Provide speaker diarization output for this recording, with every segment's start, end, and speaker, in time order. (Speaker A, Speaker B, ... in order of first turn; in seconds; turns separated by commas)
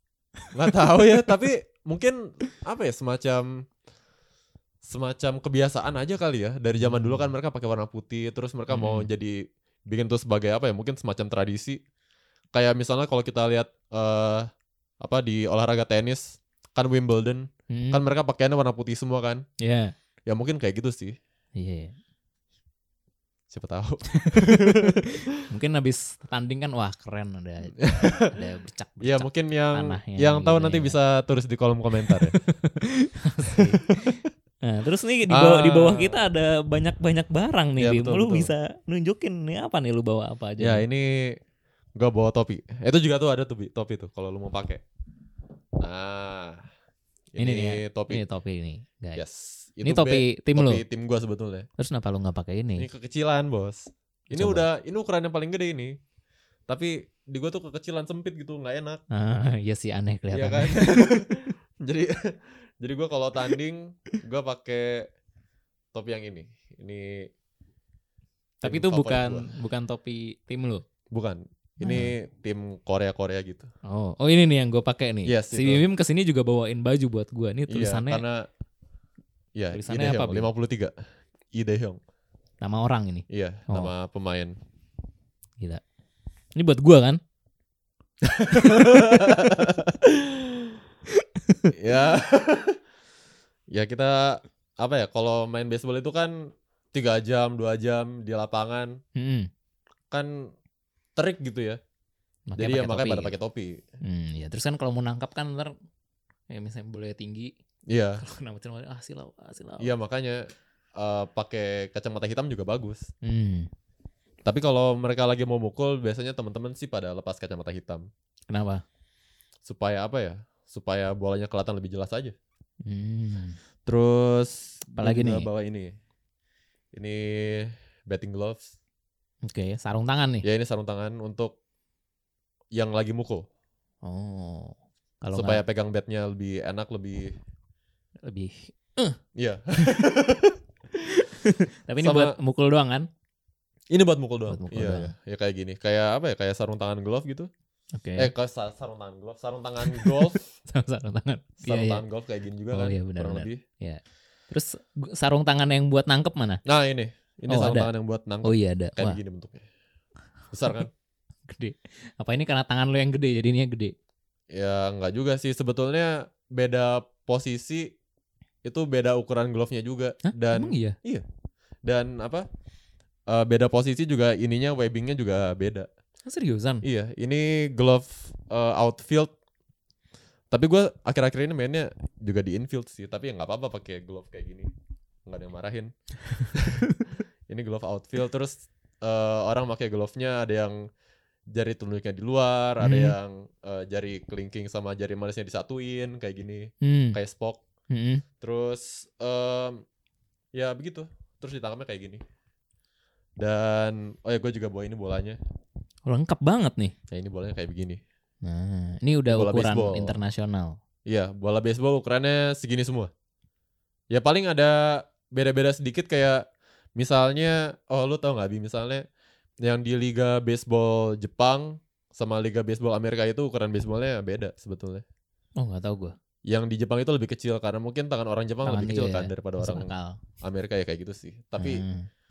Speaker A: 0.6-3.6, Speaker A: 4.8-11.8, Speaker B: 6.8-7.2, Speaker B: 8.7-9.1, Speaker A: 12.5-14.5, Speaker A: 15.0-19.4, Speaker B: 17.7-18.0, Speaker B: 19.6-19.9, Speaker A: 20.3-21.1, Speaker B: 21.6-21.9, Speaker A: 23.5-25.1, Speaker B: 24.1-31.0, Speaker A: 27.8-28.3, Speaker A: 29.0-32.4, Speaker B: 32.2-40.8, Speaker A: 35.3-36.2, Speaker A: 37.8-38.5, Speaker A: 40.6-41.4, Speaker A: 42.0-44.8, Speaker A: 45.8-46.6, Speaker A: 47.3-48.2, Speaker B: 47.4-49.2, Speaker A: 49.2-51.7, Speaker B: 49.8-50.8, Speaker B: 51.8-52.9, Speaker A: 52.8-56.0, Speaker B: 54.3-54.7, Speaker A: 56.7-59.0, Speaker B: 59.1-61.1, Speaker A: 60.3-65.1, Speaker A: 65.9-67.3, Speaker B: 68.6-70.8, Speaker A: 68.6-69.5, Speaker A: 71.1-73.7, Speaker B: 71.8-72.1, Speaker B: 73.9-78.2, Speaker A: 75.3-75.8, Speaker A: 77.7-78.4, Speaker A: 79.6-80.9, Speaker B: 79.7-80.5, Speaker A: 81.5-82.0, Speaker B: 82.6-83.9, Speaker A: 83.3-84.6, Speaker B: 86.6-87.2, Speaker A: 88.2-90.7, Speaker B: 88.6-89.2, Speaker B: 91.2-91.7, Speaker A: 91.8-92.8, Speaker A: 93.7-99.0, Speaker B: 99.2-99.5, Speaker A: 100.1-100.5, Speaker A: 101.2-101.8, Speaker B: 102.5-103.3, Speaker A: 102.6-103.8, Speaker B: 104.0-105.7, Speaker B: 106.5-107.5, Speaker A: 107.9-108.2, Speaker B: 108.2-109.9, Speaker A: 109.8-110.4, Speaker A: 111.0-113.1, Speaker B: 113.2-113.7, Speaker A: 114.5-118.1, Speaker B: 118.5-118.8, Speaker A: 119.6-122.3, Speaker B: 122.9-123.6, Speaker A: 123.9-125.9, Speaker B: 125.0-125.5, Speaker A: 126.9-128.7, Speaker B: 129.5-130.4, Speaker A: 130.4-131.6, Speaker A: 132.7-133.5, Speaker B: 134.0-135.6, Speaker A: 135.3-137.3, Speaker B: 138.2-139.2, Speaker A: 139.4-140.6, Speaker B: 141.0-143.1, Speaker A: 142.0-142.4, Speaker A: 143.9-147.5, Speaker B: 144.5-145.1, Speaker B: 148.0-148.3, Speaker A: 148.2-150.5, Speaker B: 149.8-152.0, Speaker A: 151.6-153.6, Speaker B: 152.7-156.6, Speaker A: 156.7-159.7, Speaker B: 157.5-157.9, Speaker B: 158.4-159.2, Speaker A: 160.5-160.9, Speaker B: 161.5-163.9, Speaker A: 164.5-167.9, Speaker A: 168.7-171.2, Speaker B: 170.2-171.0, Speaker A: 171.8-172.5, Speaker A: 173.3-175.9, Speaker B: 176.3-176.8, Speaker A: 176.8-179.3, Speaker A: 180.5-184.7, Speaker A: 185.3-185.9, Speaker B: 186.4-187.0, Speaker A: 186.5-186.9, Speaker A: 187.5-190.8, Speaker A: 191.5-197.6, Speaker B: 192.8-193.2, Speaker B: 196.8-197.2, Speaker B: 197.9-198.2, Speaker A: 198.4-199.8, Speaker A: 200.5-202.2, Speaker A: 203.4-205.4, Speaker B: 206.1-206.9, Speaker A: 207.1-208.0, Speaker B: 208.4-210.8, Speaker A: 209.3-210.2, Speaker A: 211.1-213.1, Speaker A: 214.1-216.4, Speaker A: 217.0-219.0, Speaker A: 219.6-225.0, Speaker B: 225.6-226.2, Speaker A: 226.5-229.9, Speaker B: 228.6-230.2, Speaker A: 230.4-231.8, Speaker B: 231.6-232.1